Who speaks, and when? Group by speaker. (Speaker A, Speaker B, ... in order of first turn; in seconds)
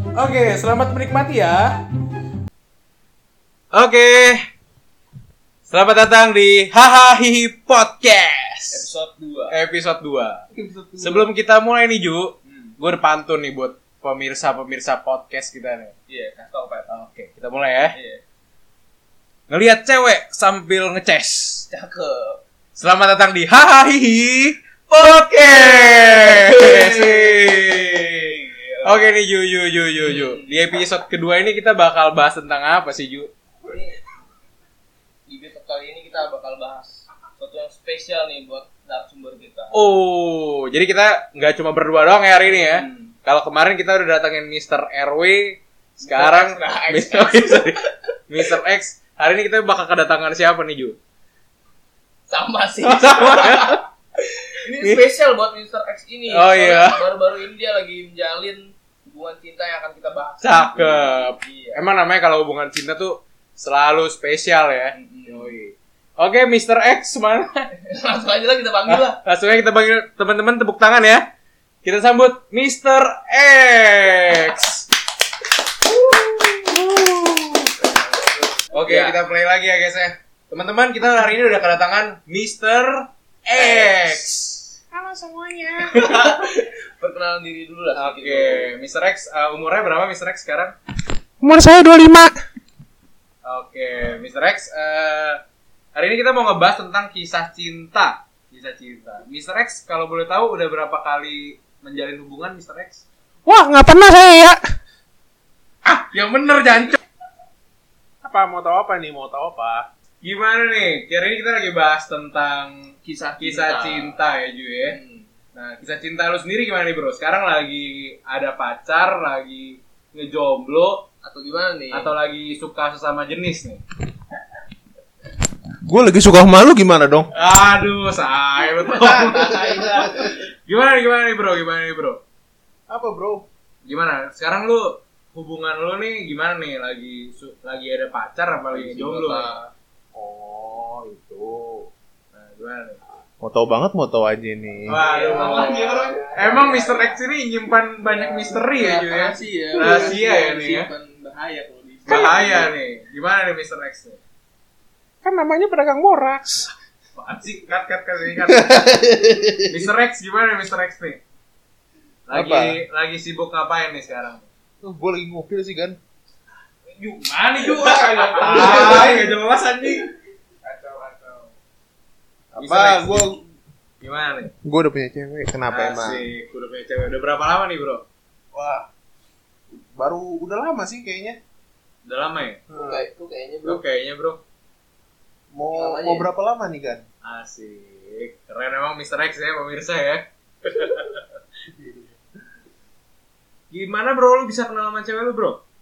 Speaker A: 0.1-1.8, 3.7-4.5, 5.7-8.9, 9.5-10.4, 11.0-15.9, 16.9-17.9, 19.5-21.6, 22.7-33.3, 39.7-51.0, 52.8-53.8, 56.3-57.0, 60.4-67.7, 68.9-71.2, 71.8-74.9, 76.0-77.7, 78.7-84.4, 85.8-86.3, 87.9-90.8, 93.4-95.4, 95.9-103.0, 105.8-107.0, 110.2-115.0, 115.5-121.1, 121.9-123.8, 127.3-132.2, 133.8-139.6, 142.3-143.0, 144.9-150.9, 152.1-154.2, 157.2-159.0, 159.6-161.2, 162.3-164.5, 166.8-170.1, 170.6-171.5, 172.6-173.4, 174.0-174.5, 175.7-178.1, 182.0-182.6, 183.6-184.4, 187.2-191.2, 193.7-195.6
Speaker B: 8.7-9.6, 12.5-12.7, 16.1-16.9, 17.9-18.2, 21.7-22.4, 25.3-29.1, 30.0-30.6, 33.6-34.0, 35.3-39.9, 42.4-43.1, 46.0-47.9, 52.3-61.8, 64.9-65.5, 67.9-69.2, 77.8-79.2, 83.5-84.2, 85.9-88.7, 113.0-114.2, 114.8-115.3, 121.2-122.1, 129.4-129.8, 138.7-139.7, 145.0-147.2, 148.0-152.7, 168.2-169.0, 182.7-183.8, 185.7-186.3
Speaker C: 84.9-86.1, 91.4-92.3, 103.5-104.6, 108.2-109.9, 125.8-127.3, 129.3-130.0, 132.9-133.5, 140.1-141.9, 143.4-145.0, 152.1-152.6, 155.2-156.7, 158.5-159.6, 162.3-162.8, 164.8-166.0, 168.6-169.3, 172.5-173.4, 174.6-176.3, 178.5-178.9, 179.7-181.4, 182.7-183.1, 185.5-187.0, 191.7-192.2